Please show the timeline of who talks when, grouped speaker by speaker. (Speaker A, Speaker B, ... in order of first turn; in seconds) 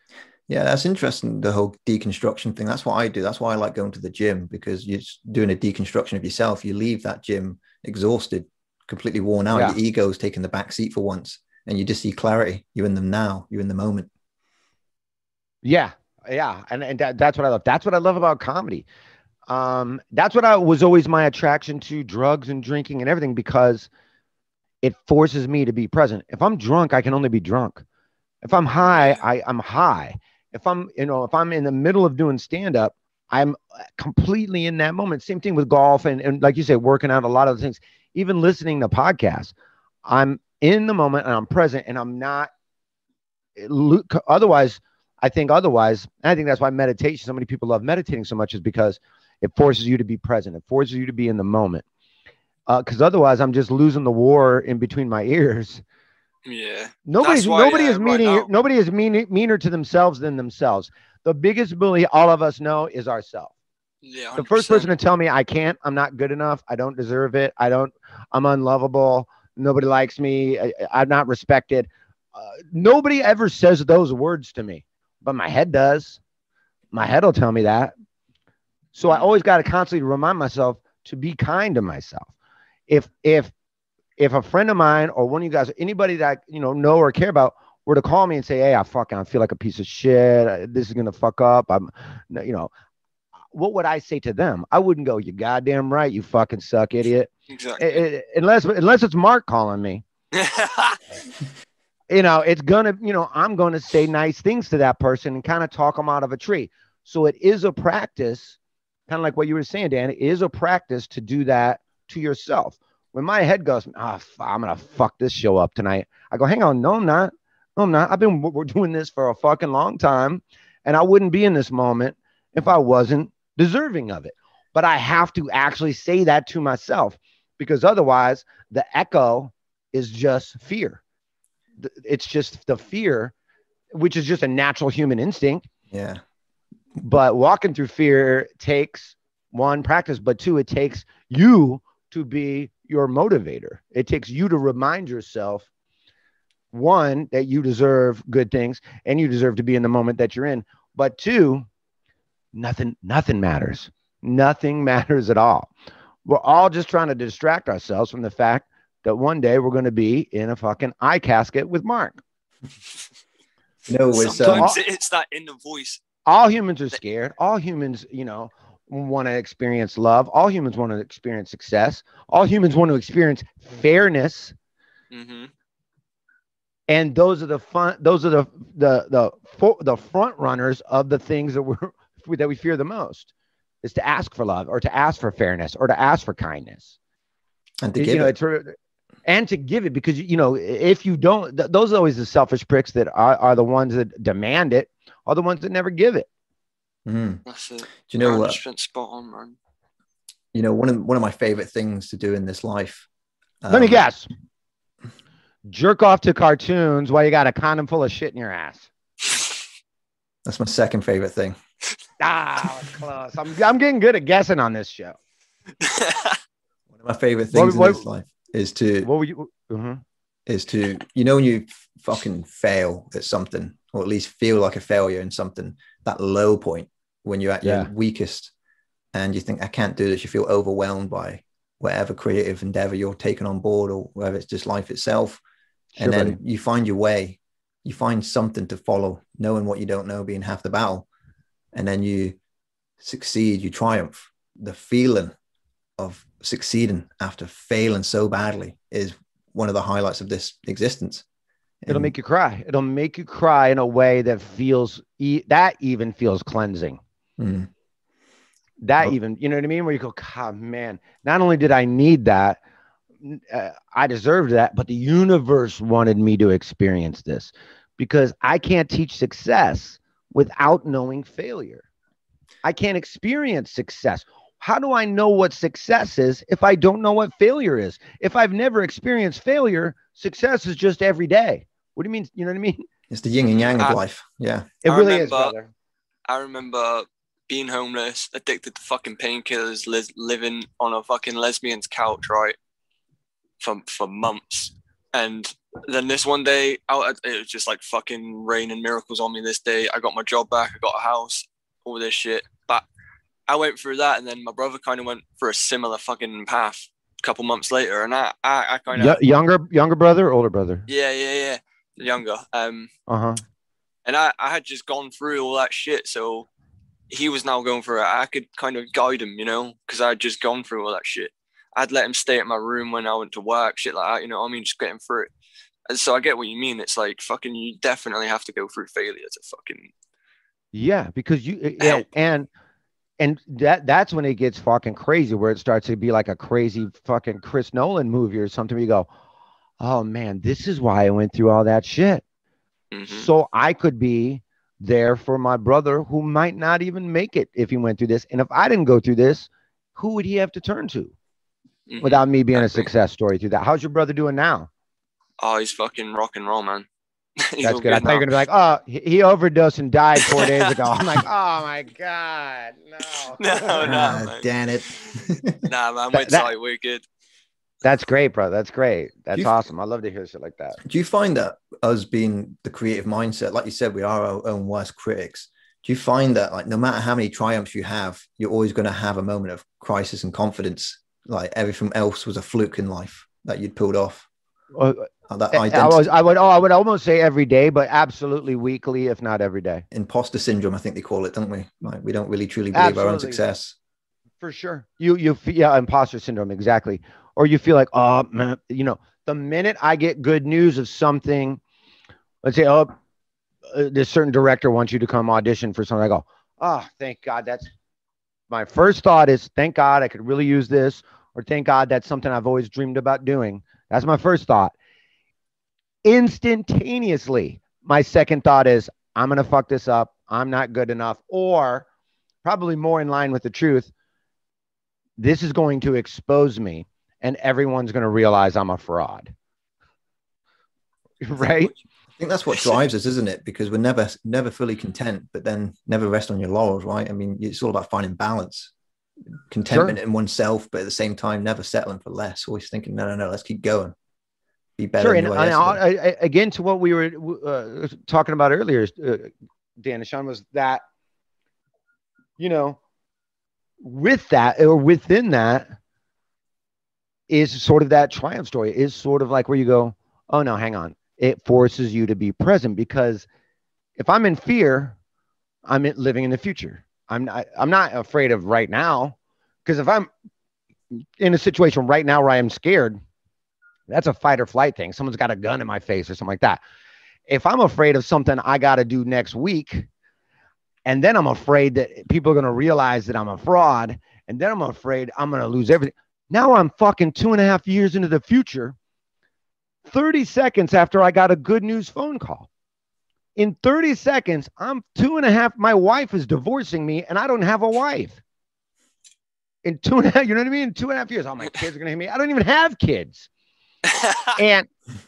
Speaker A: 0.5-14.1, 135.9-136.2, 163.9-164.7, 187.8-188.3, 197.1-197.4, 198.1-198.6, 200.5-203.1, 203.6-204.1, 210.4-211.6, 216.9-219.1, 220.5-228.5, 229.1-235.4, 236.0-241.1, 241.7-242.4, 243.0-245.3, 246.0-251.2, 251.8-252.1, 257.4-257.7, 283.1-284.7, 363.8-365.6, 369.3-369.6, 370.8-384.3, 385.3-386.1, 389.9-393.7, 432.2-438.7, 439.5-443.9, 444.8-445.8
Speaker B: 15.6-18.8, 19.5-23.9, 24.8-27.8, 28.4-39.5, 40.0-42.5, 43.6-51.8, 52.7-55.8, 57.0-63.5, 64.4-76.2, 76.9-77.9, 78.9-82.3, 82.9-83.5, 84.2-92.7, 93.5-100.0, 102.1-108.5, 109.1-131.0, 131.8-133.3, 133.9-135.7, 137.0-145.7, 146.7-151.7, 152.5-155.7, 156.2-162.2, 164.4-164.8, 166.2-174.5, 176.9-183.3, 183.8-186.9, 188.0-196.3, 203.7-204.3, 205.7-208.9, 212.2-215.2, 217.5-218.0, 219.0-220.0, 227.6-227.9, 235.9-236.4, 251.9-257.0, 258.8-262.6, 263.2-271.8, 272.6-282.9, 284.8-285.7, 308.9-310.9, 313.1-313.4, 330.7-332.5, 333.2-339.1, 339.8-342.2, 343.1-351.1, 352.0-354.7, 357.6-364.2, 366.1-366.5, 367.8-370.8, 384.7-389.8, 392.7-393.4, 394.4-401.6, 402.4-402.9, 403.7-407.7, 408.5-414.7, 416.0-421.9, 422.4-423.9, 425.2-429.3, 431.2-431.7, 439.7-440.0, 445.0-450.8, 452.4-452.8, 453.8-455.7, 457.3-463.2, 464.0-464.9, 465.6-470.1, 470.9-473.0, 473.9-476.6, 477.3-479.9, 480.9-488.8, 489.9-492.5, 493.4-498.2, 499.6-503.3, 504.4-504.7
Speaker C: 28.9-29.2, 56.4-58.5, 64.0-64.9, 97.5-98.0, 100.3-101.0, 164.1-166.0, 175.1-175.5, 197.4-199.6, 215.8-216.4, 283.6-284.0, 284.9-285.5, 286.3-292.6, 293.6-302.8, 303.5-309.2, 310.9-312.9, 314.1-316.5, 317.1-325.3, 325.9-329.9, 331.8-332.1, 342.9-343.3, 351.9-352.9, 355.4-356.9, 357.4-358.3, 360.2-360.6, 363.4-367.0, 503.9-504.3